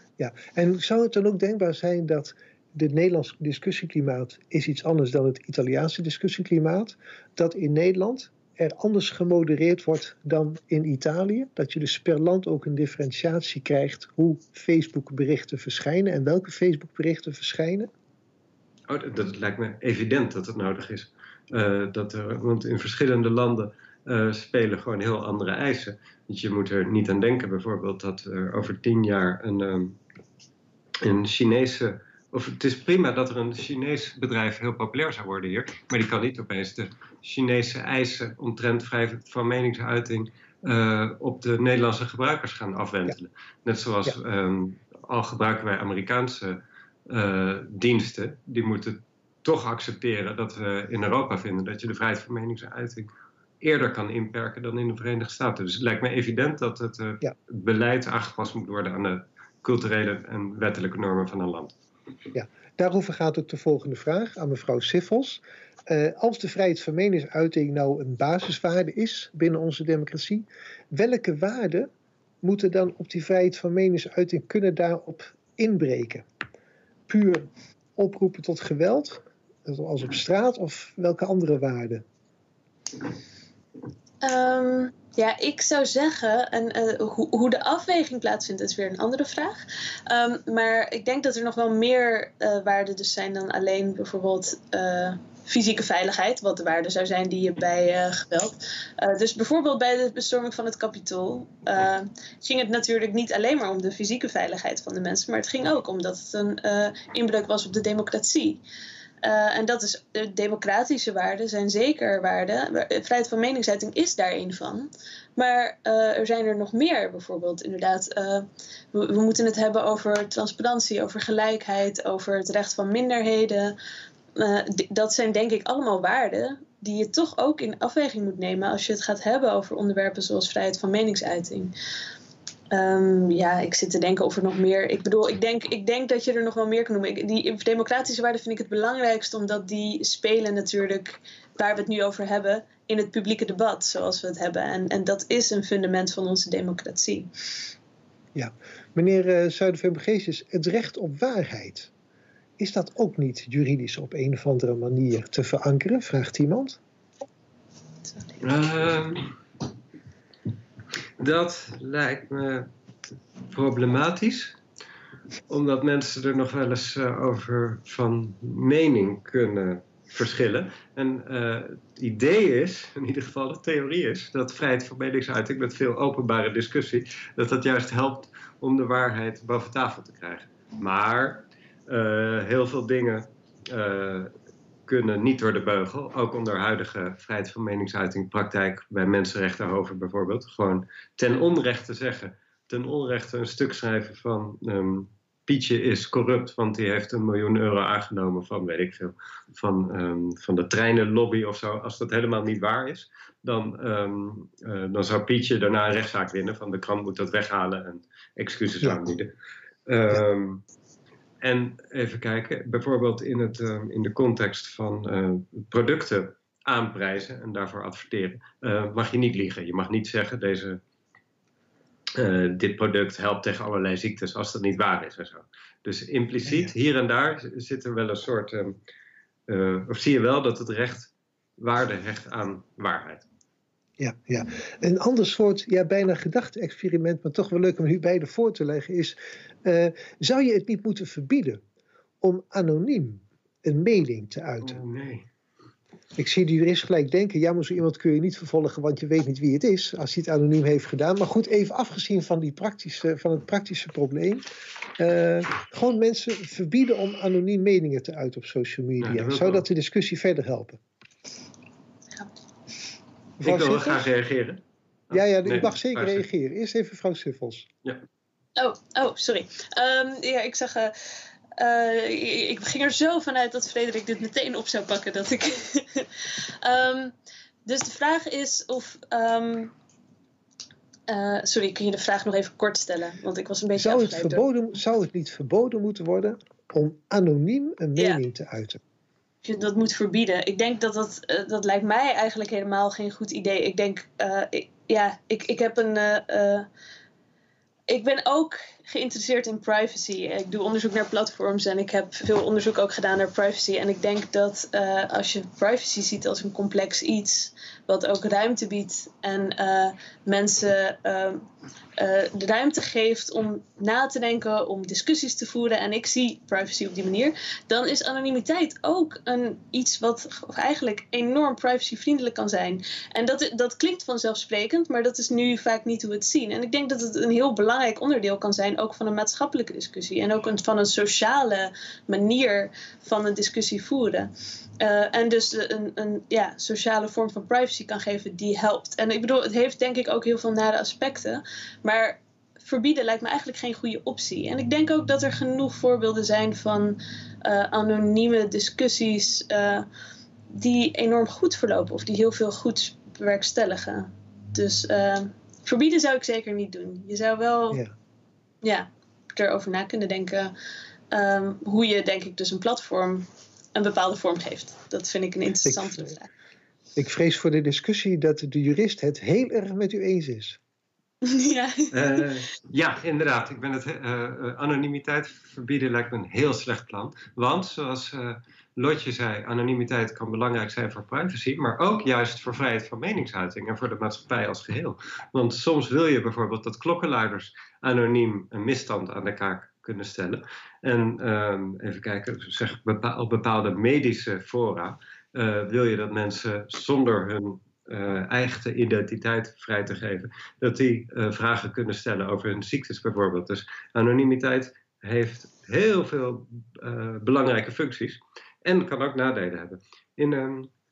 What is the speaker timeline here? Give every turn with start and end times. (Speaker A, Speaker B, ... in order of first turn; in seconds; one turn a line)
Speaker A: 0.2-17.9
Speaker B: 18.9-30.0
Speaker B: 31.0-61.7
Speaker A: 62.3-71.9
Speaker A: 72.4-76.2
Speaker A: 77.1-82.0
Speaker C: 84.2-108.6
Speaker C: 109.2-123.8
Speaker C: 124.3-131.7
Speaker C: 132.7-147.3
Speaker A: 148.3-151.9
Speaker A: 152.6-156.8
Speaker B: 158.4-159.3
Speaker B: 161.2-162.7
Speaker B: 163.5-164.6
Speaker B: 165.5-184.3
Speaker B: 184.9-209.3
Speaker B: 209.9-210.6
Speaker B: 211.4-220.8
Speaker B: 222.1-228.8
Speaker A: 226.5-226.7
Speaker B: 229.5-233.2
Speaker A: 234.0-241.6
Speaker A: 242.2-244.8
Speaker B: 244.6-245.2
Speaker A: 246.2-254.4
Speaker A: 255.0-260.8
Speaker B: 259.0-259.6
Speaker A: 263.4-264.0
Speaker B: 263.4-266.2
Speaker A: 265.1-267.7
Speaker C: 268.6-270.9
Speaker C: 271.6-277.1
Speaker C: 277.6-279.7
Speaker C: 281.1-284.4
Speaker A: 283.7-288.8
Speaker C: 287.9-288.2
Speaker C: 289.4-296.7
Speaker C: 297.9-349.9
Speaker C: 350.5-357.8
Speaker C: 358.6-360.5
Speaker C: 361.1-366.3
Speaker A: 365.6-366.1
Speaker A: 366.9-370.6
Speaker C: 371.2-371.9
Speaker B: 371.9-410.7